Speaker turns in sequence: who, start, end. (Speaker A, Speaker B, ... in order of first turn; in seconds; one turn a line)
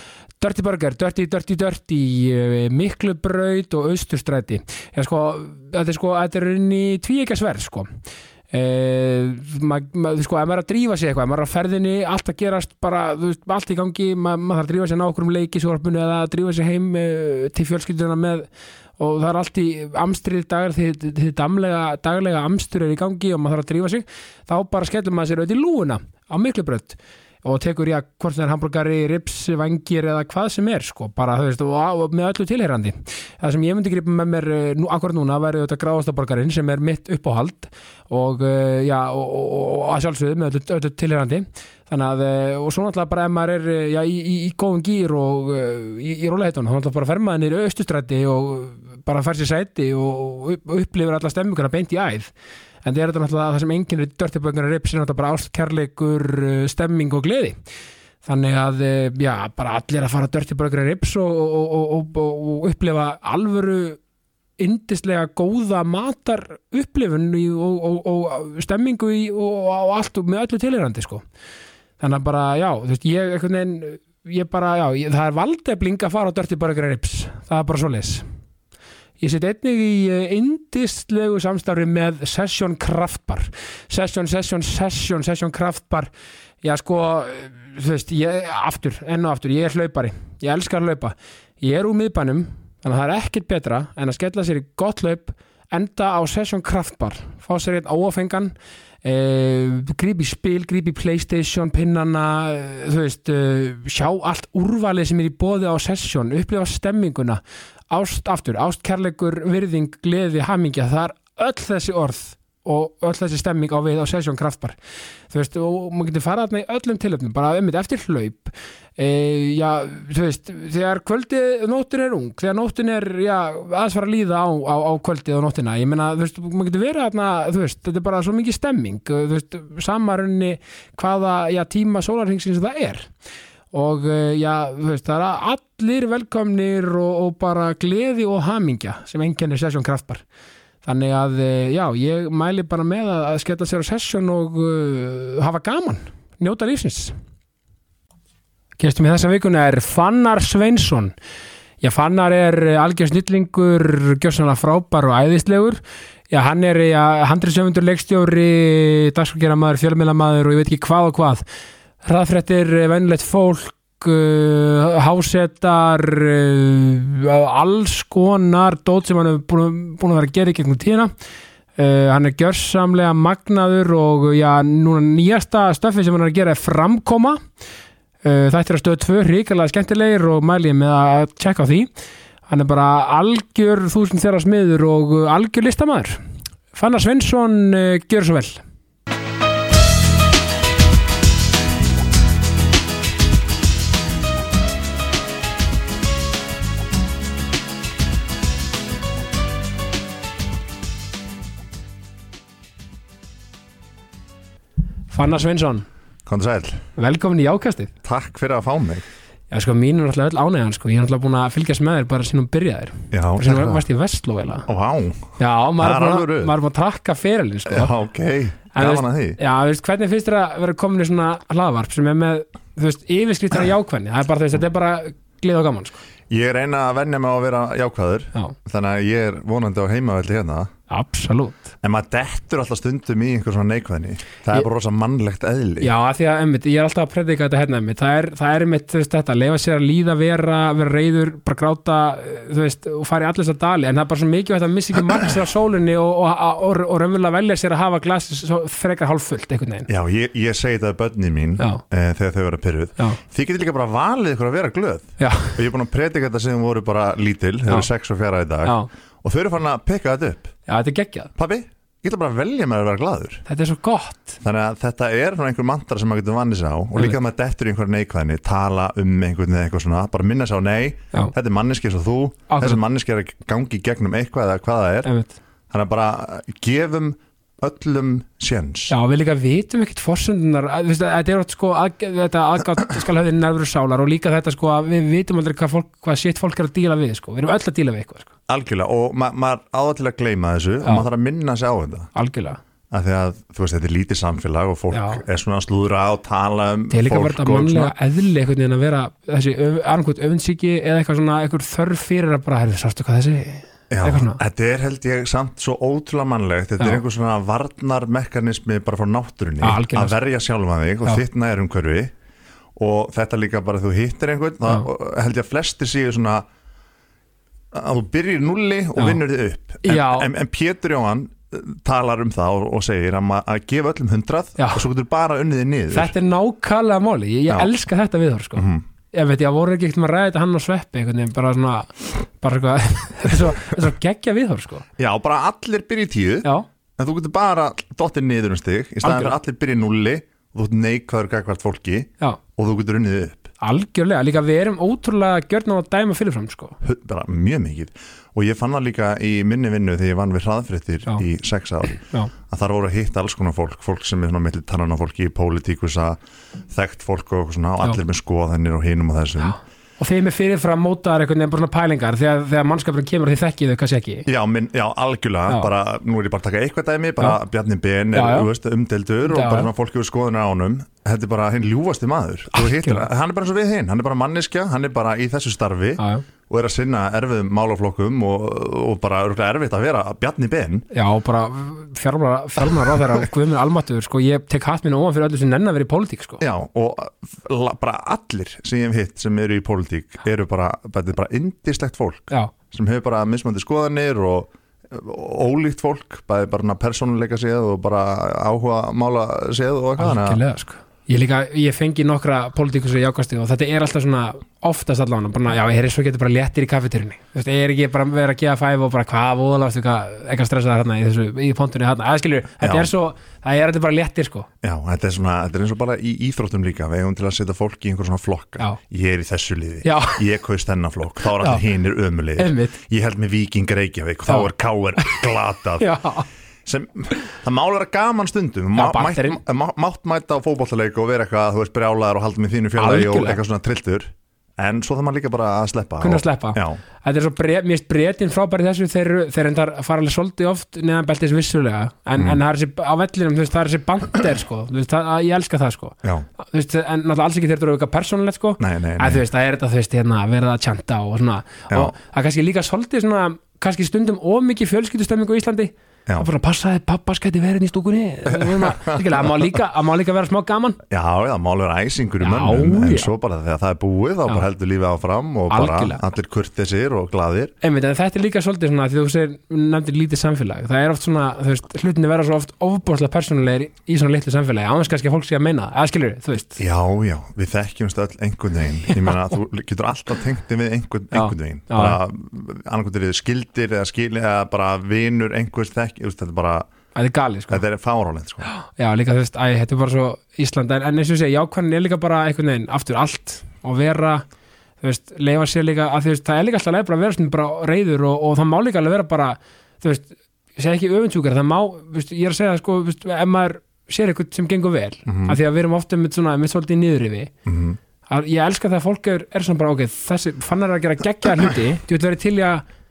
Speaker A: 0.4-7.9
Speaker A: 8.5-18.5
Speaker A: 19.0-52.3
Speaker A: 52.8-57.6
Speaker A: 58.2-64.0
Speaker A: 64.6-71.2
Speaker A: 72.0-78.2
Speaker A: 79.2-86.1
Speaker A: 86.6-114.8
Speaker A: 115.3-133.1
Speaker A: 133.7-140.2
Speaker A: 140.8-147.1
Speaker A: 148.8-151.1
Speaker A: 151.8-161.4
Speaker A: 162.0-171.1
Speaker A: 171.8-177.4
Speaker A: 178.2-181.9
Speaker A: 182.5-186.2
Speaker A: 186.7-188.6
Speaker A: 205.1-205.9
Speaker B: 206.3-206.9
Speaker A: 207.0-207.9
Speaker B: 208.0-209.1
Speaker A: 209.5-214.7
Speaker B: 213.1-213.8
Speaker B: 214.7-216.5
Speaker A: 215.4-217.9
Speaker B: 217.7-219.4
Speaker A: 218.8-226.0
Speaker B: 226.3-230.7
Speaker A: 230.9-231.7
Speaker B: 231.8-235.9
Speaker A: 235.8-249.9
Speaker B: 249.9-260.5
Speaker A: 255.2-255.6
Speaker A: 258.6-258.9
Speaker A: 260.7-261.3
Speaker B: 261.4-263.4
Speaker A: 263.5-264.4
Speaker B: 264.4-275.1
Speaker A: 272.5-272.8
Speaker A: 275.0-275.4
Speaker B: 275.7-278.9
Speaker A: 278.9-288.3
Speaker B: 288.5-292.1
Speaker A: 292.1-292.6
Speaker B: 292.9-297.9
Speaker A: 294.9-295.2
Speaker A: 296.9-304.4
Speaker B: 303.9-312.1
Speaker A: 309.6-310.1
Speaker B: 312.8-316.4
Speaker B: 317.7-326.1
Speaker A: 319.8-320.3
Speaker A: 324.6-324.8
Speaker A: 325.9-334.9
Speaker B: 328.6-328.8
Speaker B: 335.0-343.5
Speaker A: 339.0-339.4
Speaker A: 343.6-346.8
Speaker B: 346.8-356.2
Speaker A: 352.0-352.3
Speaker B: 356.7-359.6
Speaker A: 359.4-364.3
Speaker B: 364.3-380.9
Speaker A: 368.1-368.5
Speaker A: 369.2-369.7
Speaker A: 372.5-373.1
Speaker A: 376.0-376.2
Speaker A: 380.9-386.4
Speaker B: 382.8-383.3
Speaker B: 386.4-400.4
Speaker A: 400.0-414.5
Speaker B: 412.6-412.9
Speaker B: 414.6-425.9
Speaker A: 419.8-420.2
Speaker A: 421.4-421.6
Speaker A: 422.4-422.8
Speaker A: 425.8-426.3
Speaker B: 426.6-436.8
Speaker A: 428.8-429.4
Speaker A: 432.8-433.4
Speaker A: 436.0-460.8
Speaker B: 448.6-449.2
Speaker B: 458.3-459.3
Speaker B: 460.9-467.5
Speaker A: 462.2-463.1
Speaker A: 465.5-466.0
Speaker A: 467.6-476.6
Speaker B: 476.6-486.7
Speaker A: 481.1-482.0
Speaker A: 486.9-487.6
Speaker B: 487.5-488.5
Speaker A: 488.4-494.2
Speaker A: 494.8-507.3
Speaker B: 505.1-505.4
Speaker B: 507.5-507.8
Speaker A: 508.1-512.6